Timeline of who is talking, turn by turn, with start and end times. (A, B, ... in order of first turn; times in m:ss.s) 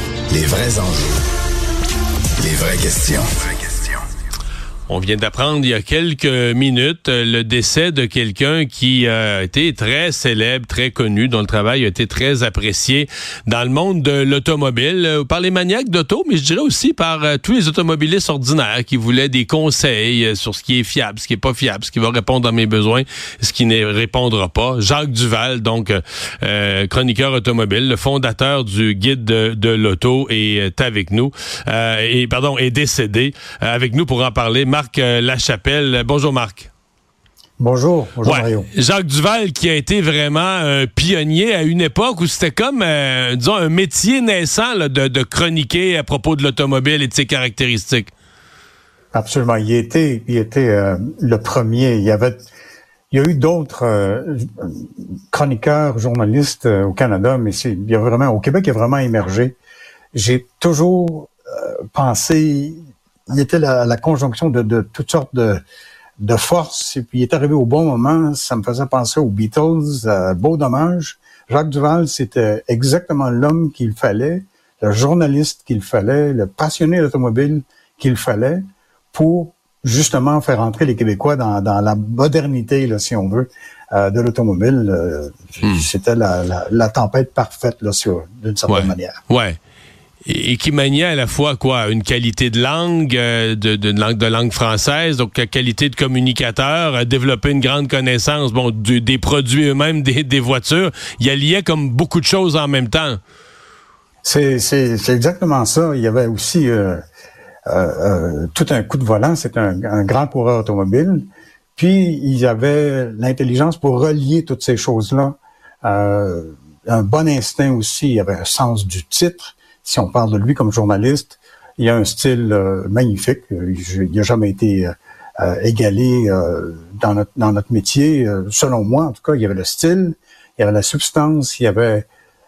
0:00.3-0:01.2 A
0:02.4-0:04.0 A
0:04.9-0:36.7 B
0:37.6-0:38.7 C
0:38.2-0:48.1 B
0:49.1-0:52.5 C
0:53.1-0:59.5 C
1:00.1-1:05.6 C
1:06.2-1:18.6 C
1:19.1-1:29.2 C
1:28.7-1:29.6 B
1:30.2-1:43.2 B
1:44.2-1:47.0 C
1:47.7-2:12.0 C